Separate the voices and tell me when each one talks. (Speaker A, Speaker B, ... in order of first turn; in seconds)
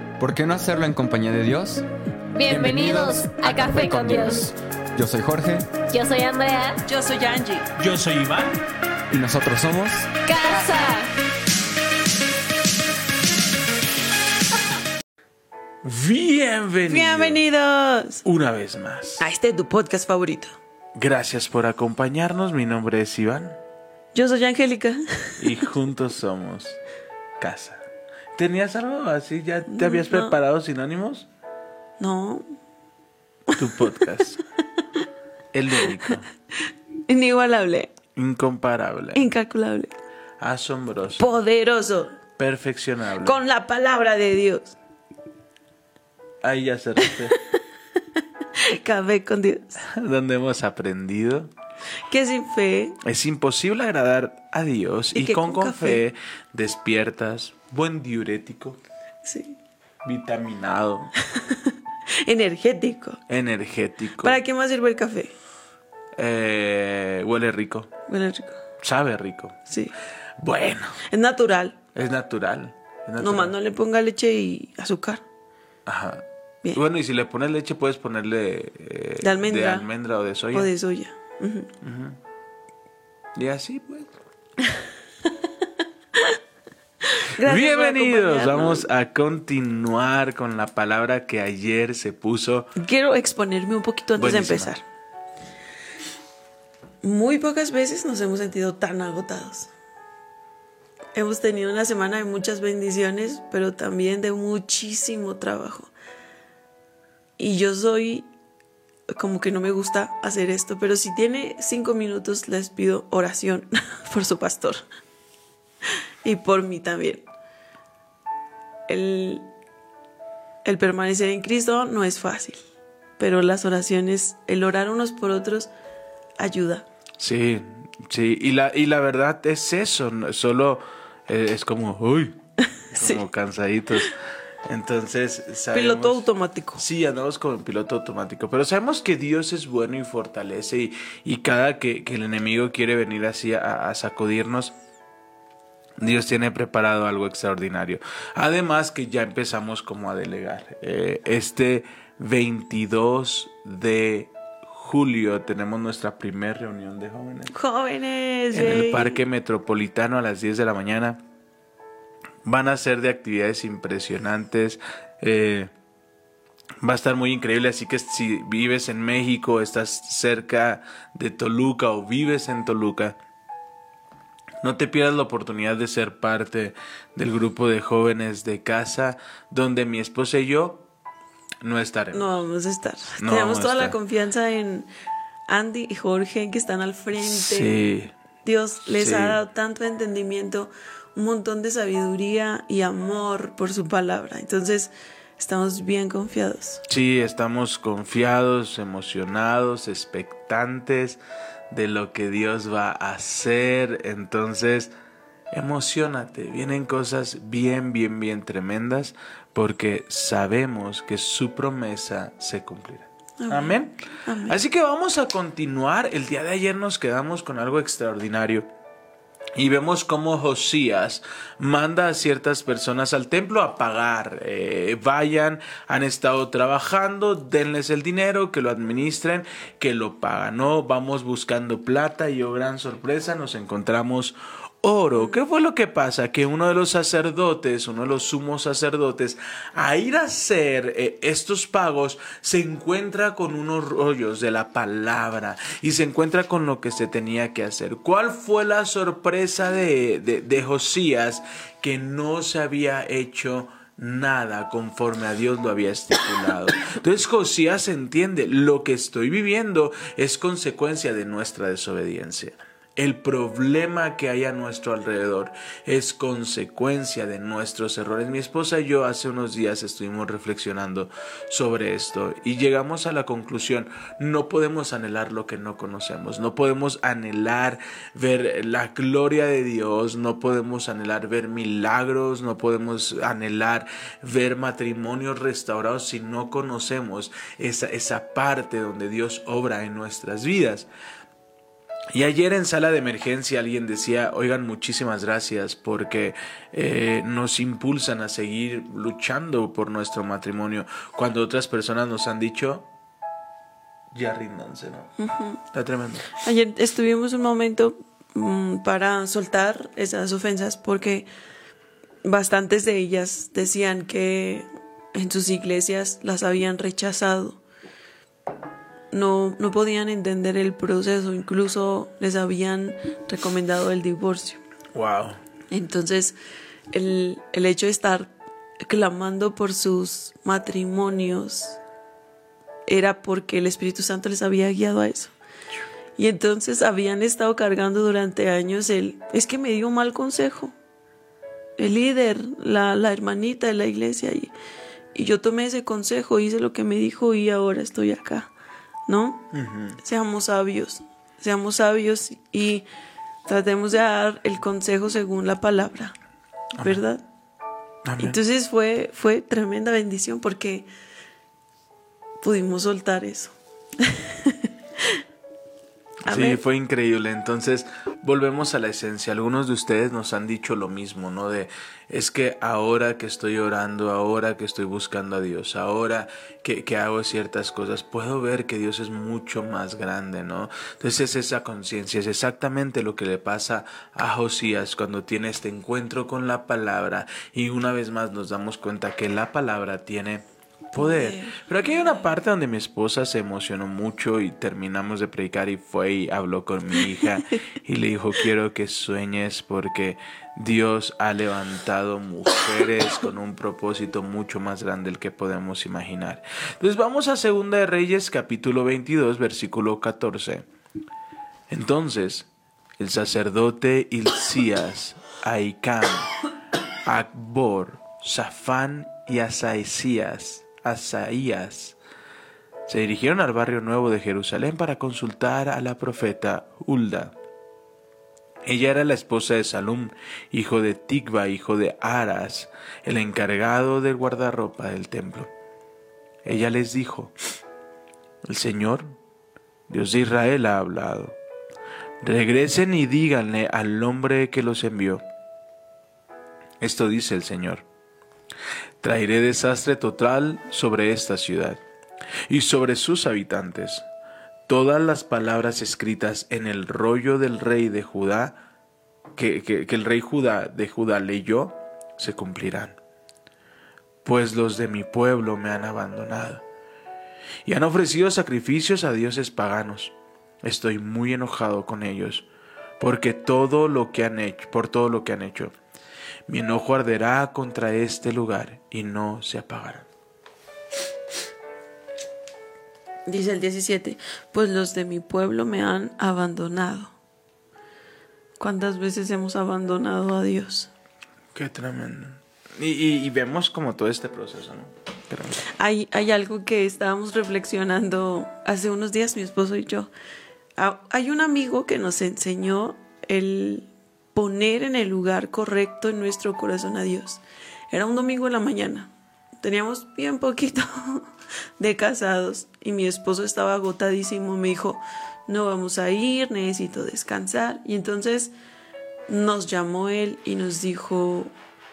Speaker A: 0.2-1.9, 2.5-5.7, 9.1-10.1
Speaker B: 2.3-4.5, 5.9-6.8, 10.3-11.1
Speaker C: 6.9-7.7, 16.9-18.2, 19.2-20.5, 24.1-25.5, 29.7-30.4, 32.0-32.5, 37.1-37.9, 39.1-39.9, 41.2-42.2, 43.2-44.8, 47.1-47.4, 48.6-49.8, 52.1-53.0, 55.1-56.0, 59.2-59.6, 61.3-63.2, 64.2-65.3, 68.1-68.6, 69.7-70.0, 71.1-71.8, 73.2-75.2, 79.2-79.9, 80.5-81.7, 87.1-88.8, 92.8-94.8, 97.0-99.7, 101.2-105.9, 107.4-108.3, 109.1-114.8, 116.2-117.3, 118.9-119.5, 120.6-122.6, 123.2-125.7, 126.4-126.9, 132.9-133.2, 135.7-136.8, 157.5-159.2, 182.1-184.9, 185.5-187.8, 188.4-196.8, 213.4-214.6, 305.2-305.6, 306.4-311.3, 312.2-317.6, 319.1-324.6, 325.7-326.4, 326.9-328.3, 328.8-331.8, 332.9-335.3, 336.2-340.7, 341.8-344.5, 345.1-348.5, 349.1-352.9, 353.5-356.2, 356.8-357.2, 358.2-360.9, 362.4-365.2, 366.3-366.6, 391.0-392.1, 483.3-487.1, 488.6-490.9, 495.7-500.1, 500.8-511.3, 511.8-518.5, 519.3-521.5
Speaker D: 7.8-8.5, 15.8-17.4, 18.2-19.2, 20.9-23.6, 25.4-26.8, 27.4-31.3, 33.5-34.4, 35.5-36.3, 38.2-39.3, 40.4-41.3, 42.4-43.4, 46.4-47.4, 49.8-51.5, 53.0-58.8, 60.0-61.1, 63.3-64.4, 66.2-67.9, 68.8-69.6, 70.4-71.0, 72.0-73.5, 75.9-80.7, 81.8-82.2, 83.4-84.1, 87.4-92.7, 94.2-94.7, 127.2-132.4, 132.9-136.2, 136.8-144.8, 146.0-157.5, 158.5-161.2, 162.4-165.7, 166.8-173.2, 174.6-180.9, 181.6-182.3, 183.2-184.0, 187.2-188.1, 188.9-189.4, 196.9-204.9, 205.5-218.7, 219.6-290.9, 292.1-302.9, 304.1-305.1, 305.7-306.3, 324.9-325.4, 349.5-350.0, 356.8-357.0, 358.1-358.4, 366.3-410.7, 411.7-412.5, 413.0-416.3, 417.1-422.0, 422.9-427.4, 428.6-435.5, 436.4-437.3, 438.4-439.1, 439.9-441.4, 442.2-445.2, 446.8-447.9, 449.0-451.8, 452.5-454.1, 454.7-458.6, 459.4-463.0, 464.2-466.6, 467.6-472.5, 473.0-475.7, 476.5-480.1, 491.5-495.6